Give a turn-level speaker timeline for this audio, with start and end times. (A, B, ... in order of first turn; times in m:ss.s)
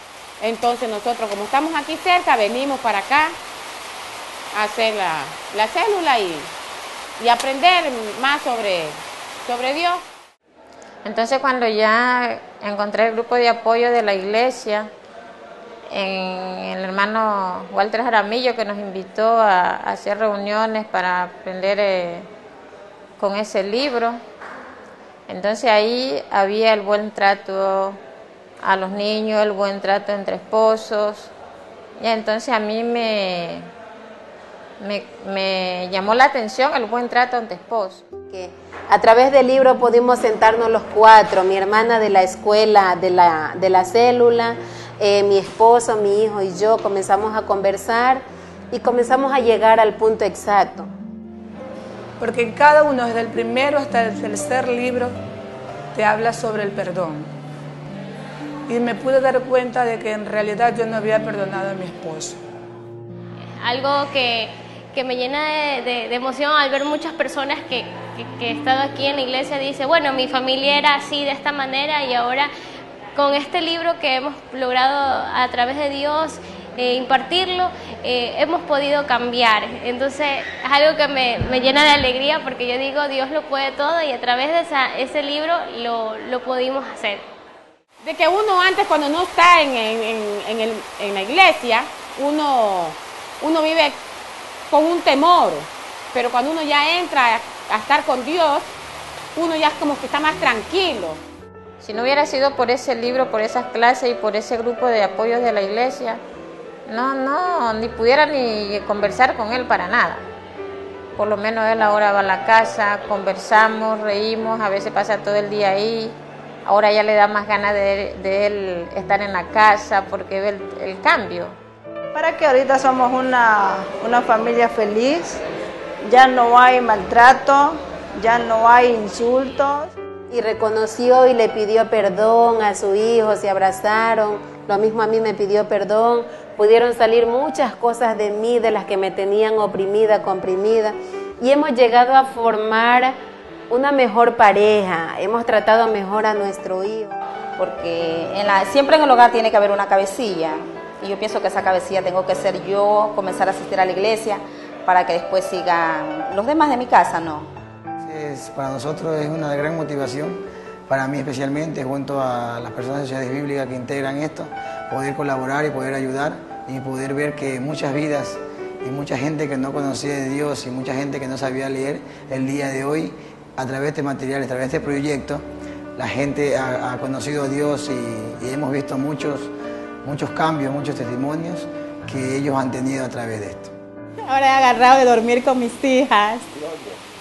0:00.4-0:03.4 A
0:04.5-0:06.5 A
0:07.2-0:10.0 A
0:11.0-0:14.9 B
0:15.9-0:22.3 B
0:23.2-0:24.2 B
0:25.3-0:28.0 B
0:28.6-0:31.3 B
0:32.0-0:33.7 B
0:34.8-0:38.0 B
0:38.3-0:50.9 C
0:52.2-0:55.2 D
0:55.9-0:57.3 D
0:58.7-1:02.4 D
1:03.9-1:04.4 E
1:05.0-1:05.3 E
1:06.4-1:08.0 E
1:08.6-1:12.4 E
1:13.2-1:14.8 E
1:15.4-1:17.6 E
1:18.5-1:27.2 E
1:28.0-1:34.0 A
1:34.7-1:38.7 A
1:39.4-1:41.2 A
1:41.8-1:46.2 B
1:46.9-1:50.3 B
1:51.2-2:01.6 B
2:02.1-2:05.4 F
2:06.1-2:09.9 F
2:10.3-2:23.1 C
2:23.7-2:27.2 C
2:27.6-2:37.5 G
2:38.0-2:55.4 H
2:56.0-2:59.5 H
3:00.0-3:03.7 H
3:04.3-3:06.4 I